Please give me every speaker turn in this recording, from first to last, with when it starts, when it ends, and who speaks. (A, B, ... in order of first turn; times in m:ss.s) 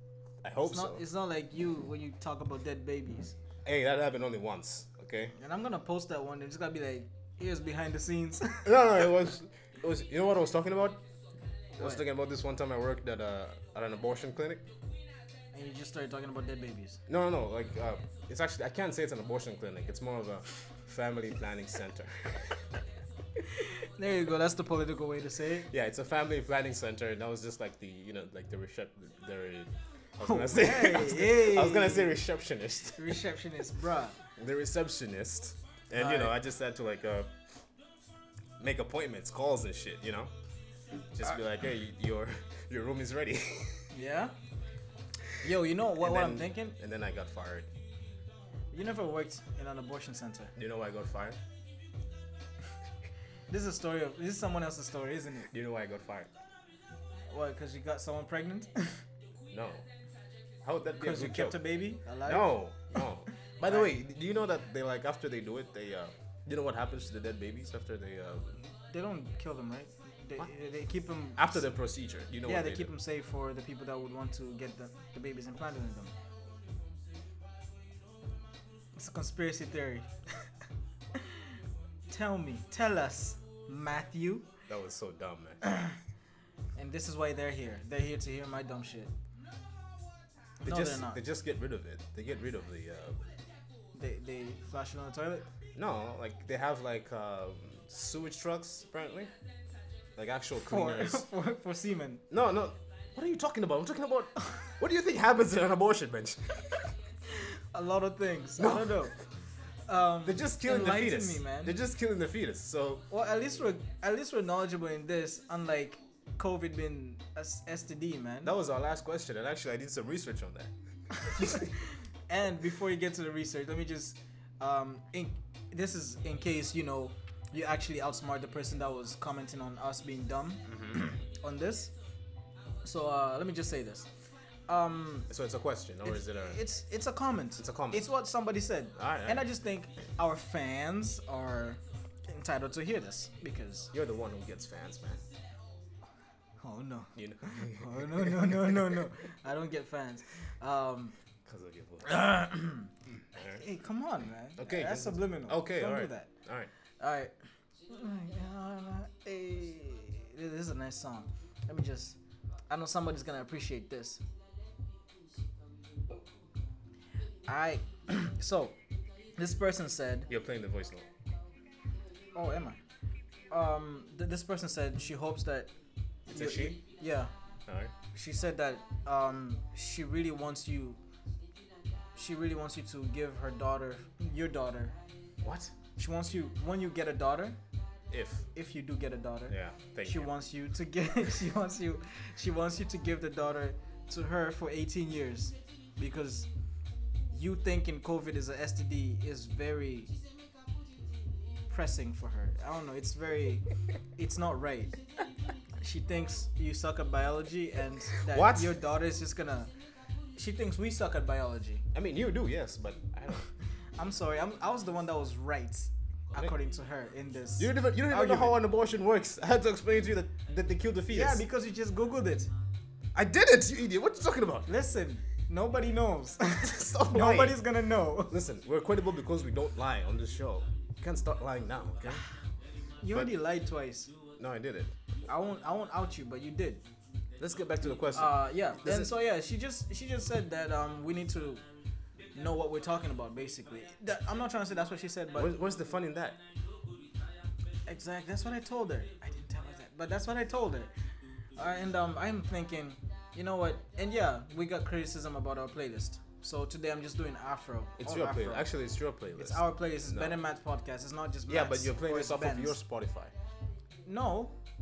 0:00.4-0:01.0 A
0:00.6-0:03.4 B
0:03.6-0:05.3 A
0:05.3-0:08.7 B
0:08.6-0:11.0 A
0:11.8-0:14.6 A
0:15.5-0:17.0 B
0:17.1-0:22.6 A
0:23.4-0:25.7 B
0:25.7-0:33.1 A
0:30.2-0:32.2 B
0:33.0-0:34.2 B
0:34.4-0:37.3 A
0:36.0-0:36.3 B
0:38.6-0:40.3 A
0:41.1-0:43.8 A
0:43.9-0:44.3 B
0:45.4-0:46.8 B
0:46.0-0:47.7 A
0:48.7-0:50.5 B
0:50.6-0:51.4 A
0:53.5-0:55.5 B
0:55.5-0:56.3 A
0:57.3-0:59.0 B
0:59.5-0:59.8 A
1:00.6-1:01.6 A
1:01.0-1:02.6 B
1:02.2-1:08.5 A
1:08.9-1:11.6 B
1:11.4-1:12.9 A
1:12.4-1:16.1 B
1:19.0-1:20.1 B
1:21.1-1:21.5 B
1:22.1-1:24.5 B
1:24.7-1:25.6 A
1:25.6-1:25.9 B
1:26.8-1:29.1 B
1:30.6-1:33.2 A
1:30.6-1:31.2 B
1:33.9-1:35.5 B
1:35.7-1:39.3 A
1:40.2-1:41.3 A
1:40.6-1:42.2 B
1:42.3-1:46.9 A
1:47.3-1:49.2 B
1:48.6-1:49.1 A
1:49.9-1:51.8 B
1:50.2-1:53.0 A
1:53.1-1:58.5 B
1:58.4-2:00.7 A
2:01.1-2:11.9 B
2:01.3-2:01.7 A
2:10.7-2:11.0 A
2:12.8-2:14.1 B
2:14.7-2:15.3 B
2:15.3-2:16.6 A
2:16.1-2:23.9 B
2:17.6-2:18.1 A
2:19.0-2:19.5 A
2:23.9-2:25.2 A
2:26.6-2:31.1 B
2:27.1-2:28.6 A
2:31.4-2:32.3 A
2:32.0-2:36.3 B
2:34.6-2:36.7 A
2:37.0-2:37.3 B
2:37.9-2:42.2 B
2:42.7-2:44.2 B
2:47.5-2:48.8 B
2:49.4-2:50.3 B
2:50.3-2:51.1 A
2:52.3-2:52.8 B
2:53.5-2:55.7 B
2:56.3-2:56.8 A
2:56.3-2:57.3 B
2:57.7-2:57.9 A
2:58.1-3:01.0 B
3:02.1-3:05.0 B
3:05.4-3:05.7 A
3:06.0-3:07.6 B
3:08.1-3:08.4 A
3:08.5-3:16.5 B
3:09.5-3:10.3 A
3:17.3-3:20.1 B
3:21.7-3:23.6 B
3:24.2-3:24.9 B
3:25.8-3:29.7 B
3:28.3-3:28.7 A
3:30.4-3:31.8 B
3:31.9-3:33.4 A
3:34.0-3:38.6 B
3:37.6-3:41.4 A
3:41.1-3:42.5 B
3:43.1-3:44.7 A
3:44.7-3:48.4 B
3:46.6-3:47.6 A
3:48.3-3:52.2 A
3:53.0-3:54.1 B
3:54.4-3:54.9 A
3:55.3-3:56.8 B
3:57.4-3:59.1 A
3:58.1-4:01.6 B
4:02.3-4:05.5 B
4:05.3-4:06.4 A
4:07.9-4:10.9 B
4:11.6-4:18.7 B
4:18.0-4:20.4 A
4:19.4-4:22.8 B
4:21.5-4:23.3 A
4:24.0-4:24.5 B